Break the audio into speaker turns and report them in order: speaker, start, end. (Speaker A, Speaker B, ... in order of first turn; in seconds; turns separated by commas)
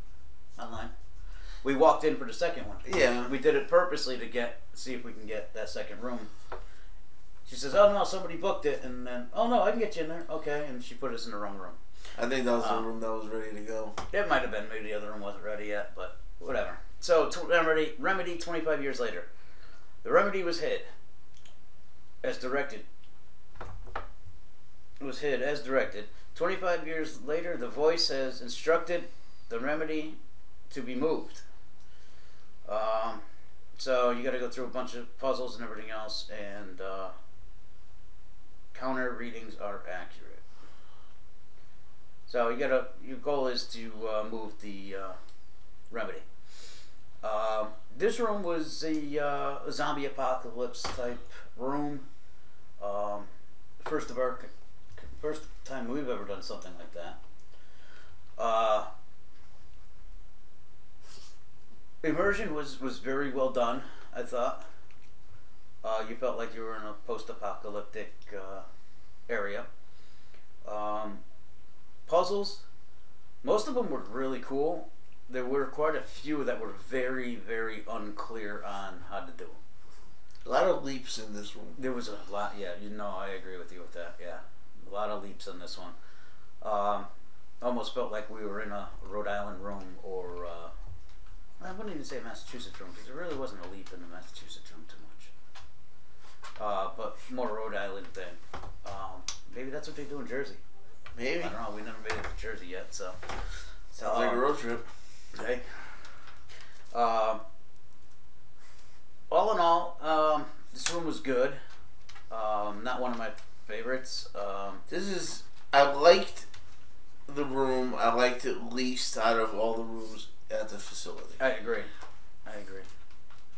Speaker A: 0.6-0.9, Speaker A: 1.6-6.3, Speaker B: 2.8-3.3, Speaker A: 7.5-11.8, Speaker B: 12.2-14.0, Speaker A: 12.6-12.9, Speaker A: 14.1-19.3, Speaker A: 20.0-20.9, Speaker A: 22.2-22.8, Speaker A: 25.0-30.2, Speaker A: 30.7-31.4, Speaker A: 32.6-33.2, Speaker A: 33.8-37.1, Speaker A: 38.7-40.4, Speaker A: 42.3-45.2, Speaker A: 45.9-46.2, Speaker A: 47.2-52.0, Speaker A: 52.8-53.3, Speaker A: 53.8-57.2, Speaker A: 58.4-58.9, Speaker A: 62.0-64.6, Speaker A: 65.8-68.6, Speaker A: 69.3-69.7, Speaker A: 70.6-71.2, Speaker A: 72.1-72.6, Speaker A: 73.4-79.6, Speaker B: 80.4-81.8, Speaker A: 81.8-85.9, Speaker A: 86.6-87.1, Speaker A: 87.6-90.7, Speaker A: 91.6-95.3, Speaker A: 96.6-100.6, Speaker B: 101.2-101.5, Speaker A: 101.4-103.2, Speaker A: 103.9-104.4, Speaker B: 104.0-104.8, Speaker A: 105.3-105.7, Speaker A: 106.9-107.4, Speaker A: 109.3-111.6, Speaker A: 112.3-114.8, Speaker B: 114.9-116.5, Speaker B: 117.3-121.4, Speaker A: 121.4-121.9, Speaker A: 122.5-122.9